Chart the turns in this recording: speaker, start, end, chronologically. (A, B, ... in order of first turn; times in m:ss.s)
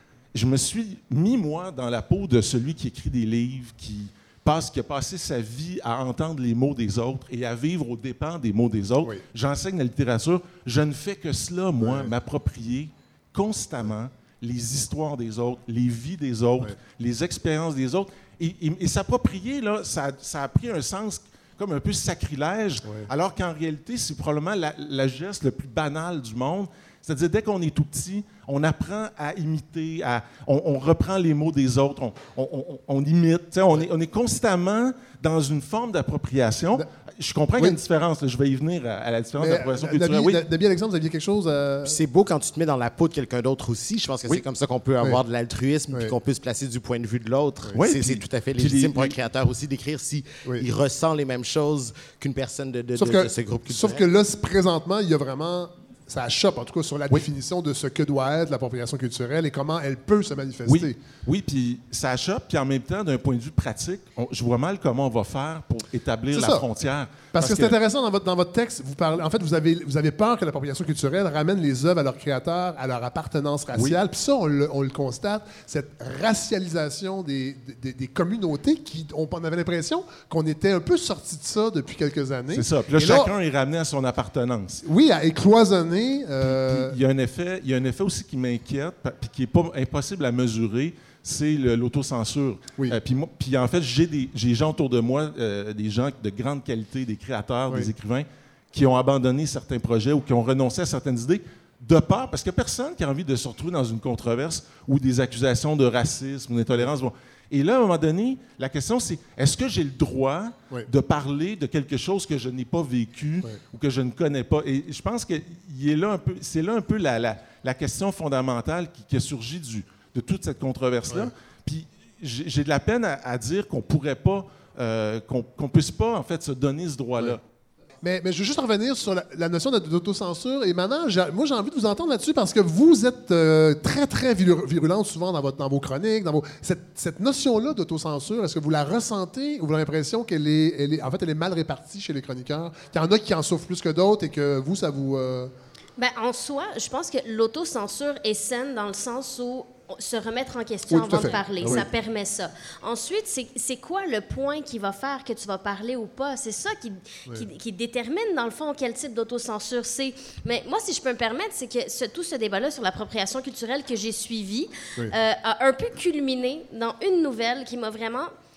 0:00.3-0:40.4 A
0:11.8-0:12.1 B
0:39.4-0:42.0 B
0:41.8-0:54.0 C
0:47.7-0:49.1 A
0:53.0-1:01.0 B
1:00.7-1:07.8 A
1:06.3-1:06.6 B
1:07.3-1:23.3 B
1:22.5-1:24.8 A
1:24.8-1:26.9 B
1:26.5-2:07.4 A
2:08.0-2:25.5 B
2:26.0-2:48.3 D
2:30.9-2:31.9 B